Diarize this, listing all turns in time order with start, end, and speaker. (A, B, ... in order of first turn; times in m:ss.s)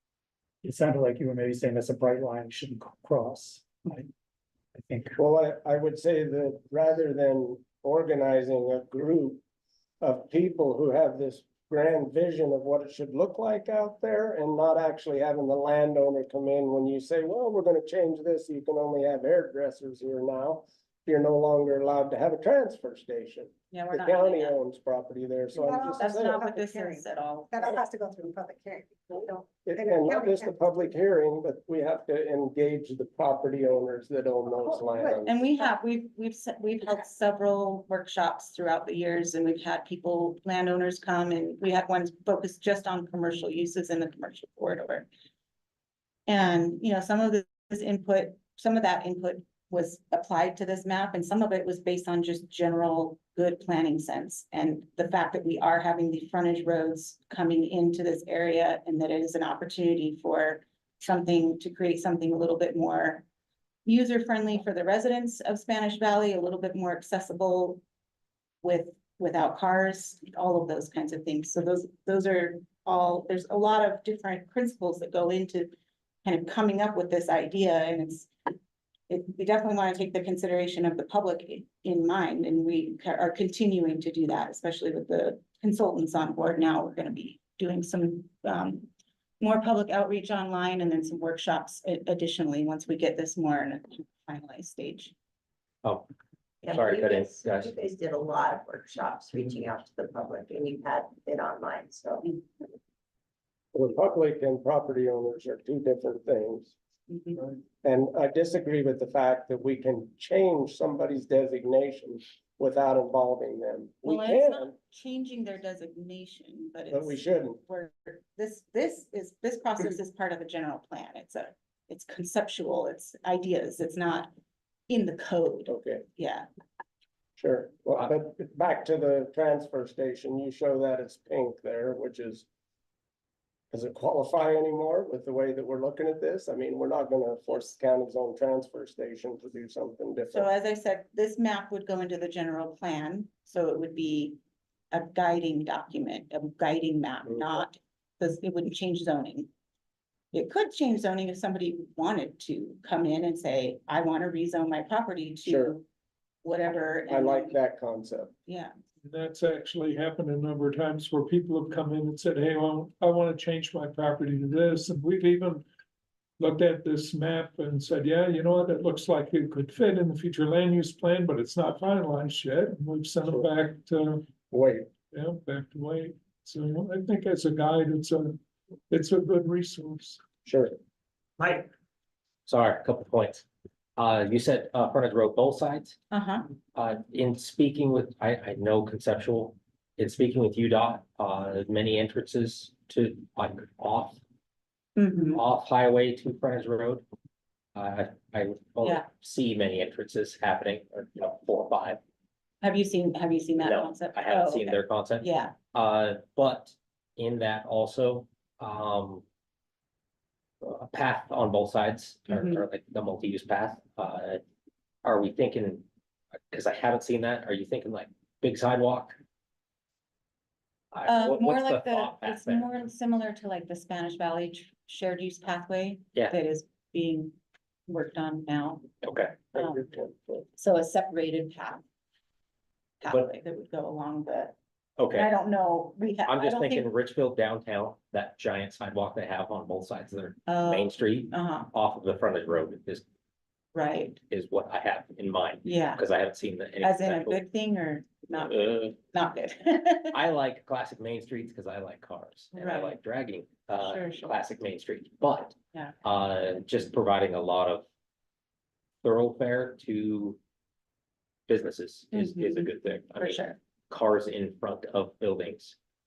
0:00.6-0:04.1 A
0:04.7-0:05.2 A
0:05.2-0:09.4 B
0:10.0-0:26.4 B
0:23.7-0:24.6 C
0:25.5-0:30.6 D
0:26.0-0:27.8 C
0:29.6-0:35.4 B
0:34.6-0:35.7 D
0:35.2-0:45.1 C
0:46.3-1:03.2 C
1:03.8-1:07.8 C
1:08.6-1:15.7 C
1:16.2-1:18.3 C
1:19.1-1:28.9 C
1:29.4-1:35.1 C
1:36.6-1:42.3 E
1:36.6-1:37.7 F
1:43.7-1:46.7 B
1:47.1-1:47.4 C
1:47.8-1:54.7 B
1:54.0-2:04.3 C
1:56.9-1:57.6 B
2:04.9-2:06.4 C
2:05.7-2:06.0 B
2:07.4-2:12.4 B
2:13.7-2:20.5 B
2:20.3-2:24.4 C
2:24.9-2:29.5 C
2:27.3-2:27.6 B
2:30.3-2:35.8 C
2:35.4-2:35.8 B
2:36.4-2:37.5 C
2:37.1-2:38.3 B
2:39.0-2:45.6 G
2:46.4-2:54.2 G
2:54.5-2:54.9 B
2:55.1-2:58.4 G
2:58.9-3:00.2 G
3:00.4-3:00.7 B
3:01.4-3:01.7 E
3:02.4-3:03.4 F
3:04.0-3:06.0 F
3:06.1-3:06.5 C
3:06.7-3:14.2 F
3:15.0-3:15.4 C
3:15.3-3:17.0 F
3:17.7-3:22.0 F
3:22.6-3:25.5 C
3:23.6-3:29.2 F
3:30.6-3:34.4 F
3:32.3-3:32.6 C
3:35.0-3:35.8 F
3:36.5-3:39.2 F
3:40.9-3:42.7 F
3:41.0-3:47.3 C
3:47.9-3:48.9 C
3:49.0-3:49.5 F
3:49.5-3:50.4 B
3:49.5-3:49.8 C
3:50.6-3:51.8 C
3:53.0-3:54.6 C
3:55.0-3:55.3 F
3:55.1-3:56.8 C
3:56.2-4:03.0 F
4:00.5-4:01.7 C
4:03.7-4:04.2 C
4:04.2-4:07.4 F
4:05.6-4:06.0 C
4:06.8-4:10.2 C
4:08.3-4:08.9 F
4:10.1-4:17.8 F
4:12.5-4:13.0 C
4:13.8-4:14.3 C
4:19.0-4:20.4 F
4:21.5-4:25.8 F
4:22.1-4:23.6 C